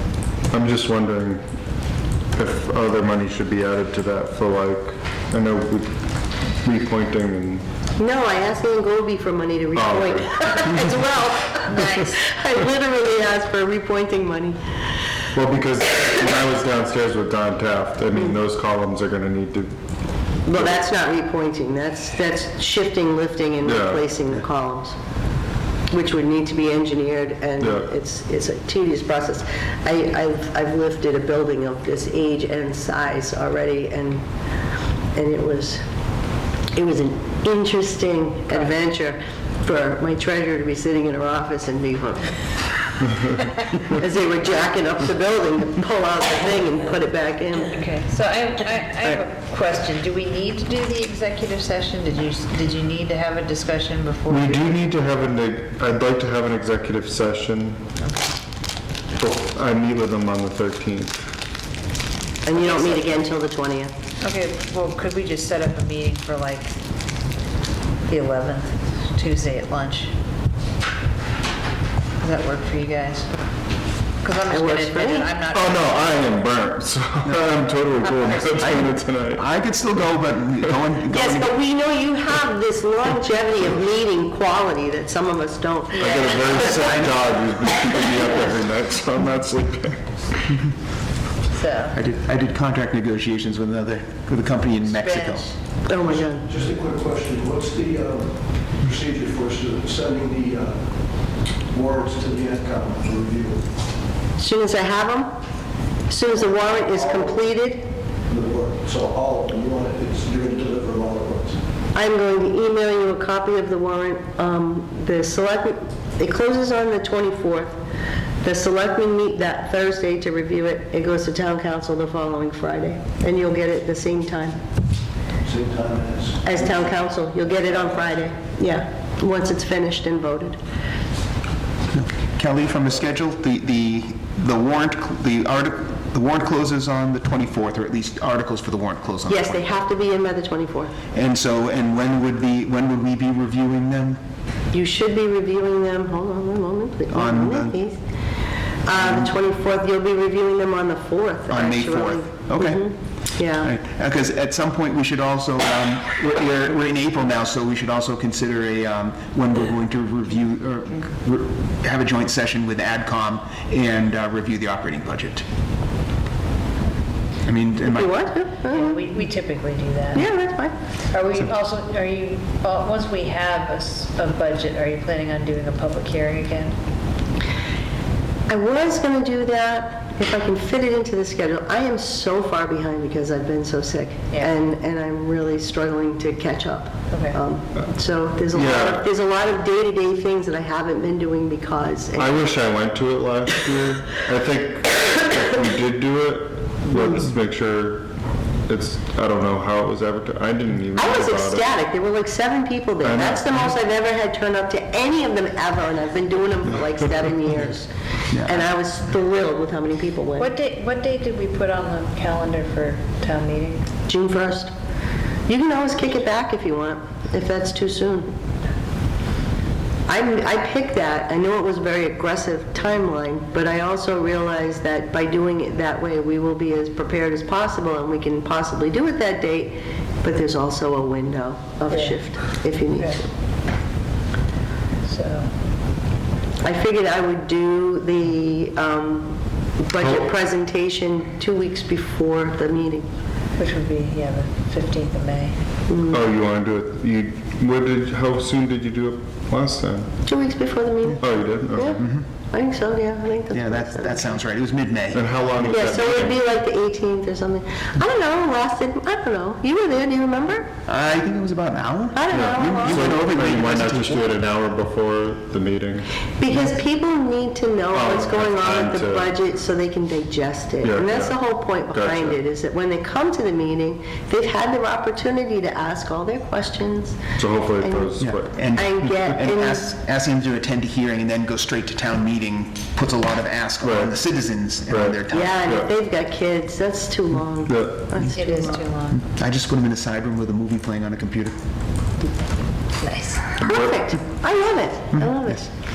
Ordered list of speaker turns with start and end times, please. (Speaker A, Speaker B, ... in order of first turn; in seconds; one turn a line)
Speaker A: 0.5-1.4
Speaker A: 2.3-6.0
Speaker A: 6.6-7.6
Speaker B: 8.0-14.6
Speaker A: 9.8-10.8
Speaker C: 11.6-12.2
Speaker A: 15.3-19.7
Speaker B: 20.5-25.0
Speaker A: 23.6-24.0
Speaker B: 25.9-34.2
Speaker A: 27.6-27.9
Speaker B: 35.1-35.8
Speaker B: 36.7-42.3
Speaker B: 43.7-47.8
Speaker C: 47.7-54.8
Speaker A: 54.3-57.8
Speaker C: 58.0-58.3
Speaker A: 59.2-61.2
Speaker B: 62.5-63.9
Speaker C: 62.5-63.2
Speaker C: 64.2-66.8
Speaker C: 68.1-70.1
Speaker C: 72.2-73.3
Speaker C: 74.2-76.4
Speaker B: 74.5-75.3
Speaker A: 75.5-79.4
Speaker D: 77.2-77.6
Speaker D: 78.6-81.5
Speaker B: 81.1-86.8
Speaker C: 85.9-87.1
Speaker A: 86.0-90.5
Speaker C: 91.5-92.0
Speaker D: 91.9-95.5
Speaker C: 94.9-95.6
Speaker B: 95.9-96.5
Speaker E: 96.1-101.0
Speaker E: 101.7-103.7
Speaker B: 104.4-105.3
Speaker B: 106.1-107.9
Speaker E: 106.9-107.4
Speaker E: 108.3-111.6
Speaker B: 111.9-117.7
Speaker B: 118.4-124.6
Speaker E: 125.4-126.8
Speaker B: 126.4-130.6
Speaker D: 131.9-139.7
Speaker B: 139.3-140.9
Speaker D: 141.1-144.2
Speaker B: 144.7-148.0
Speaker D: 147.1-147.8
Speaker B: 148.8-153.7
Speaker D: 148.9-149.3
Speaker D: 151.5-152.9
Speaker D: 153.6-165.4
Speaker D: 167.4-168.2
Speaker B: 167.8-169.1
Speaker C: 168.7-170.3
Speaker B: 170.1-170.8
Speaker C: 171.1-176.8
Speaker B: 178.5-192.4
Speaker C: 187.1-187.4
Speaker A: 188.5-189.0
Speaker A: 192.2-198.1
Speaker A: 198.7-201.7
Speaker B: 200.9-210.5
Speaker A: 203.0-203.7
Speaker C: 210.4-213.9
Speaker B: 214.1-214.7
Speaker B: 215.5-218.3
Speaker B: 220.1-233.3
Speaker C: 231.9-232.2
Speaker C: 235.1-235.5
Speaker B: 236.6-243.1
Speaker C: 243.6-245.6
Speaker B: 245.9-246.2
Speaker A: 246.1-250.1
Speaker B: 250.2-254.3
Speaker A: 251.2-252.1
Speaker D: 252.0-252.2
Speaker D: 253.5-255.2
Speaker A: 255.1-256.4
Speaker B: 255.6-260.7
Speaker D: 260.9-264.4
Speaker B: 262.1-263.2
Speaker A: 262.3-266.7
Speaker B: 266.4-277.2
Speaker A: 267.9-269.3
Speaker A: 270.8-272.4
Speaker A: 277.4-278.5
Speaker B: 277.8-278.1
Speaker D: 278.2-285.7
Speaker B: 278.7-279.9
Speaker A: 283.8-284.1
Speaker A: 284.9-285.9
Speaker B: 285.3-288.8
Speaker A: 287.7-288.1
Speaker C: 288.2-289.2
Speaker D: 289.1-291.6
Speaker C: 293.0-293.6
Speaker B: 293.6-295.7
Speaker D: 295.1-295.6